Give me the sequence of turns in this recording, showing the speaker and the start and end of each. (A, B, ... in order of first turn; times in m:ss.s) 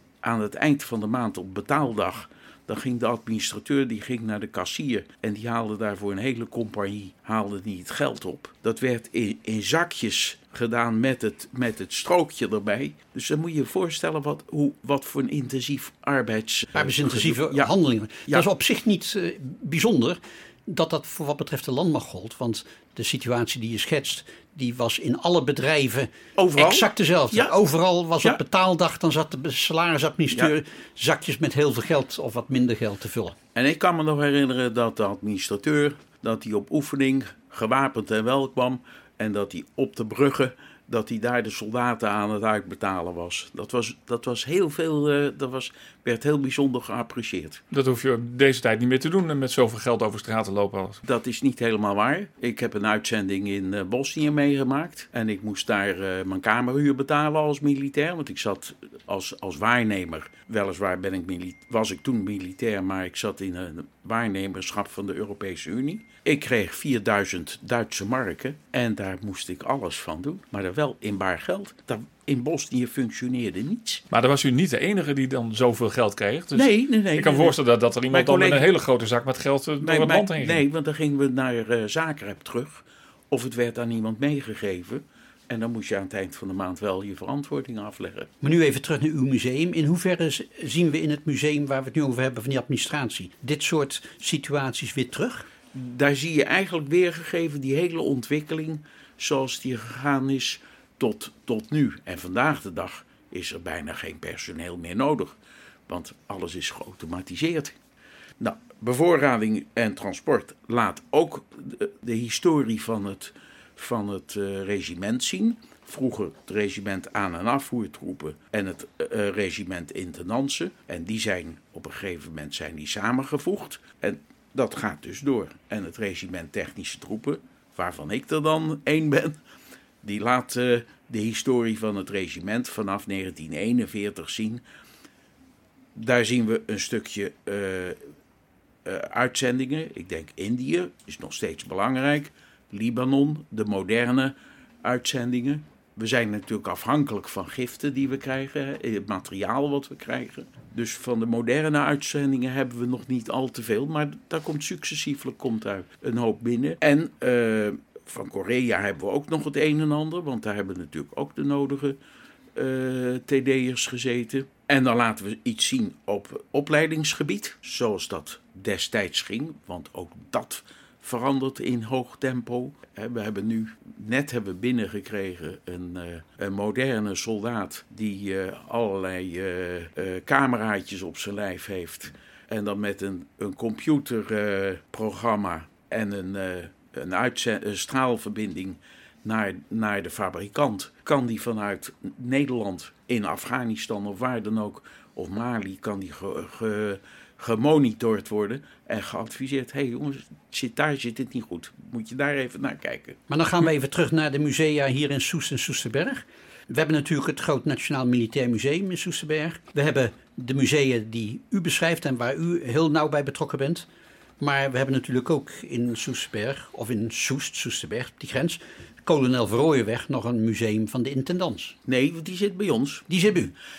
0:00.2-0:17.7 A
0:16.7-0:33.4 B
0:26.4-0:27.5 A
0:33.5-0:47.6 A
0:47.7-0:51.0 C
0:51.0-1:14.0 A
1:14.1-1:20.6 C
1:16.5-1:17.6 A
1:18.1-1:18.6 A
1:19.8-1:28.3 A
1:28.4-1:35.5 B
1:35.7-1:45.4 A
1:45.9-1:47.7 A
1:48.4-2:09.4 A
2:10.0-2:14.6 A
2:16.0-2:18.0 A
2:18.8-2:42.0 A
2:42.6-3:23.2 A
3:23.3-3:33.9 B
3:34.4-3:41.8 B
3:41.8-3:43.1 A
3:43.1-3:43.5 B